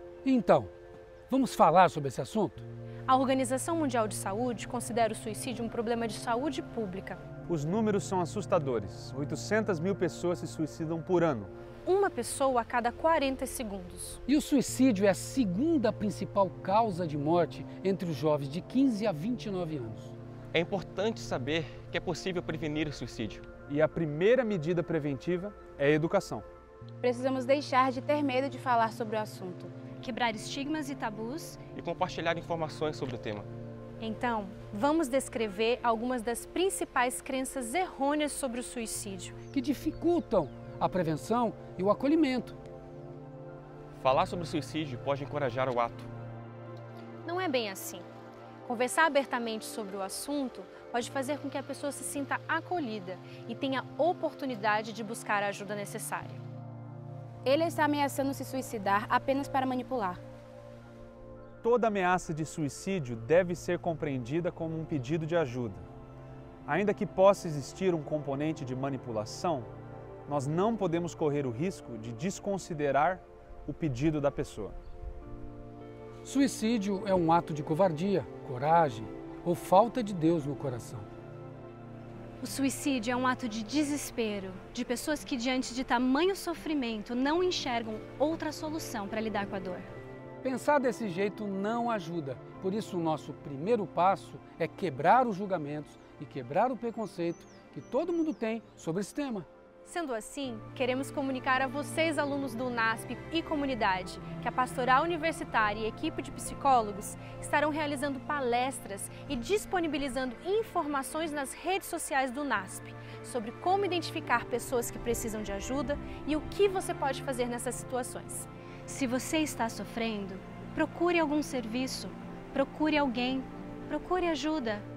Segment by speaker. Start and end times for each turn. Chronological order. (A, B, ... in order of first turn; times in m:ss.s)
0:00.2-0:00.7 A
0:01.3-0:02.6 A
0:03.1-0:07.2 B
0:07.5-0:11.5 C
0:11.8-0:14.2 B
0:14.3-0:20.1 A
0:20.5-0:23.4 D
0:23.7-0:26.4 C
0:27.0-0:29.7 E
0:30.0-0:31.6 B
0:31.7-0:33.5 D
0:34.0-0:39.3 B
0:39.5-0:42.6 A
0:44.0-0:46.1 D
0:47.2-0:48.0 B
0:48.6-0:56.4 B
0:57.4-1:00.2 E
1:01.6-1:05.8 C
1:06.6-1:09.7 C
1:10.3-1:14.7 C
1:16.2-1:21.1 A
1:22.4-1:29.9 B
1:30.4-1:39.5 A
1:39.8-2:04.8 B